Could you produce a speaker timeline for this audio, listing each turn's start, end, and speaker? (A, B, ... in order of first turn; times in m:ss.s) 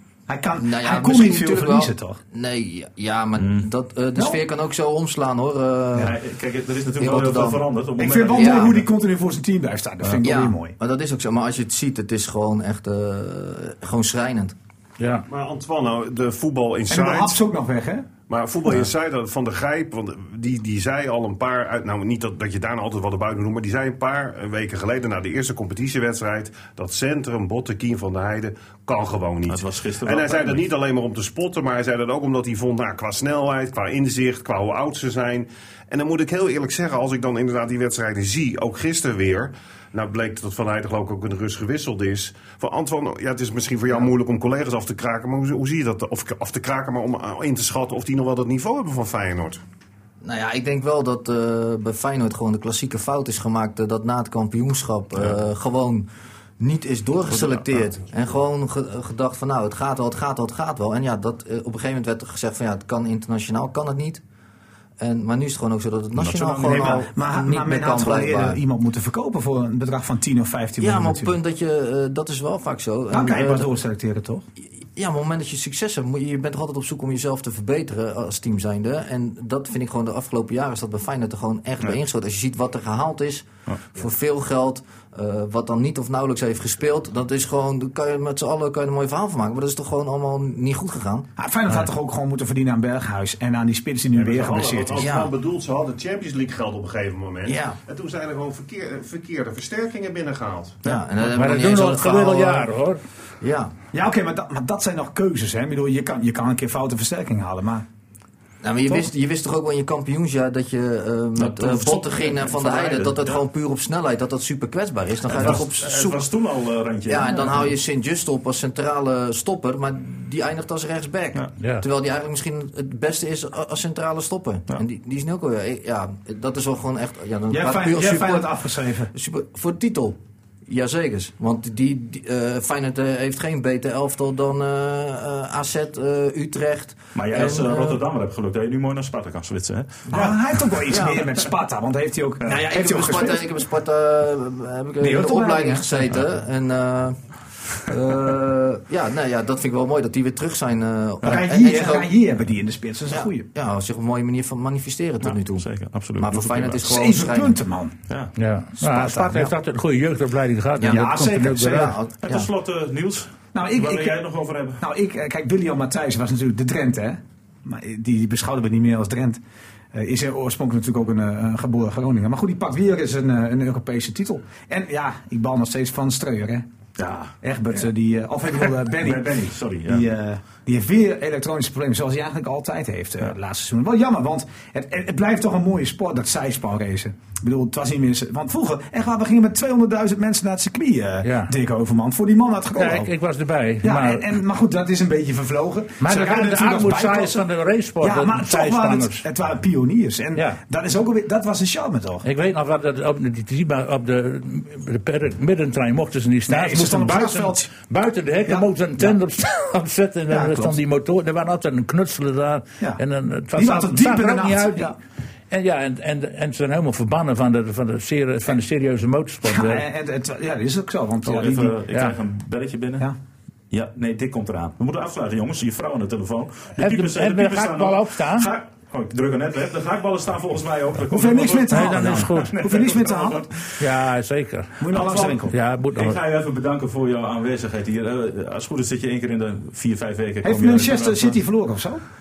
0:00.3-0:02.2 A
0:00.6-0:06.1 B
0:03.4-0:03.7 C
0:06.0-0:08.9 C
0:07.0-0:08.7 B
0:08.0-0:10.8 A
0:10.2-0:14.6 B
0:15.0-0:15.3 D
0:15.3-0:17.4 E
0:16.9-0:18.1 A
0:18.3-0:49.6 E
0:29.5-0:30.7 C
0:50.2-0:56.1 B
0:56.6-1:04.2 B
1:05.0-1:08.6 B
1:06.2-1:07.0 C
1:06.7-1:11.4 A
1:10.8-1:13.7 B
1:13.1-1:14.4 A
1:14.9-1:31.3 B
1:31.4-1:35.1 A
1:34.1-1:35.0 C
1:34.8-1:40.8 E
1:35.0-1:35.3 B
1:37.5-1:37.8 B
1:40.8-1:42.7 B
1:41.2-1:43.0 D
1:43.4-1:43.7 B
1:43.9-1:47.8 A
1:48.6-1:56.3 B
1:51.4-1:53.4 C
1:55.3-1:57.7 C
1:57.0-2:08.5 B
2:01.6-2:01.8 D
2:07.5-2:09.1 A
2:09.1-2:18.0 B
2:17.1-2:21.0 C
2:20.1-2:21.2 B
2:20.1-2:23.5 A
2:22.4-2:32.1 B
2:25.0-2:25.9 A
2:31.2-2:33.5 A
2:33.1-2:37.6 B
2:35.2-2:36.8 C
2:36.8-2:38.0 A
2:38.4-2:41.9 D
2:38.8-2:39.5 A
2:40.8-2:42.5 B
2:40.9-2:42.0 A
2:42.2-2:44.8 C
2:43.5-2:44.2 A
2:44.8-2:49.4 A
2:49.9-2:56.7 A
2:57.0-2:57.3 C
2:57.4-3:13.1 A
2:58.9-3:00.1 C
3:11.2-3:11.5 D
3:12.8-3:14.3 D
3:13.8-3:17.4 A
3:16.0-3:19.2 D
3:18.0-3:22.3 A
3:22.2-3:35.0 D
3:26.5-3:27.8 A
3:28.5-3:29.2 A
3:30.3-3:30.8 A
3:33.6-3:35.0 A
3:35.5-3:39.8 D
3:39.4-3:41.8 A
3:41.2-3:43.1 C
3:43.7-3:54.0 C
3:46.8-3:48.5 D
3:51.1-3:53.5 A
3:51.7-3:52.6 D
3:53.8-3:56.2 D
3:54.8-3:55.6 A
3:54.9-4:01.4 C
4:00.4-4:02.0 A